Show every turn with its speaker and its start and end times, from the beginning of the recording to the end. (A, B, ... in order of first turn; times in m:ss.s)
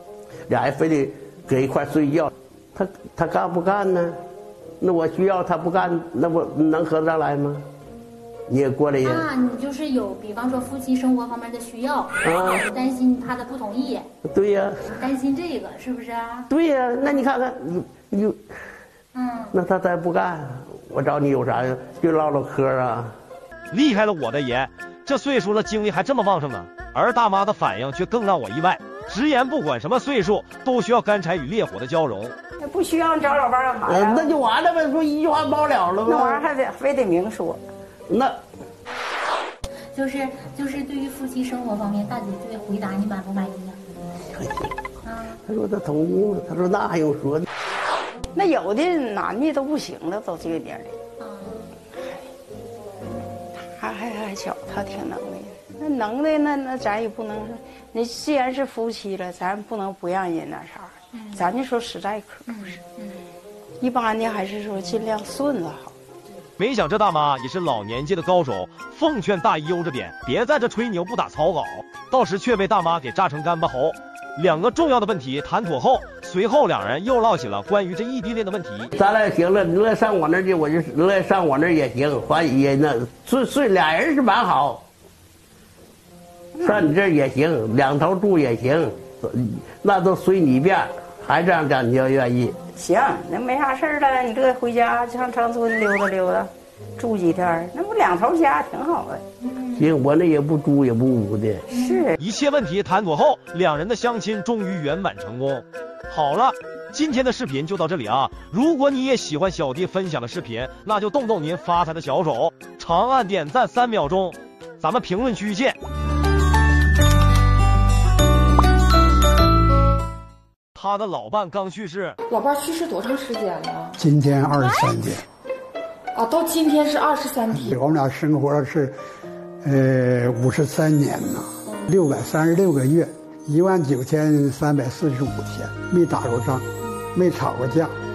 0:00.5-0:04.2 A
0:04.8-0:07.6 A
0:08.5-0:09.2 A
0:09.0-0:14.1 B
0:12.2-0:12.6 A
0:14.3-0:14.8 A
0:14.8-0:16.5 B
0:16.5-0:18.4 A
0:19.2-0:19.5 B
0:19.5-0:23.2 A
0:23.7-0:32.3 C
0:32.6-0:34.4 D
0:33.9-0:36.4 A
0:36.1-0:37.6 D
0:38.1-0:38.4 A
0:39.9-0:43.8 B
0:44.3-0:44.7 A
0:45.1-0:45.4 B
0:45.4-0:47.4 A
0:48.3-0:51.0 D
0:51.2-0:51.7 B
0:53.6-1:02.8 D
1:01.1-1:01.5 B
1:02.5-1:03.2 B
1:03.8-1:05.9 D
1:06.6-1:18.9 C
1:19.0-1:24.8 A
1:26.6-1:26.9 D
1:26.6-1:32.6 A
1:32.8-1:39.2 D
1:39.4-1:39.9 B
1:39.8-1:41.7 A
1:41.7-1:42.1 B
1:41.7-1:42.2 D
1:42.2-1:55.8 C
2:00.8-2:02.2 C
2:02.3-2:04.0 E
2:04.0-2:05.2 F
2:06.2-2:07.8 E
2:07.5-2:09.0 F
2:09.6-2:17.9 F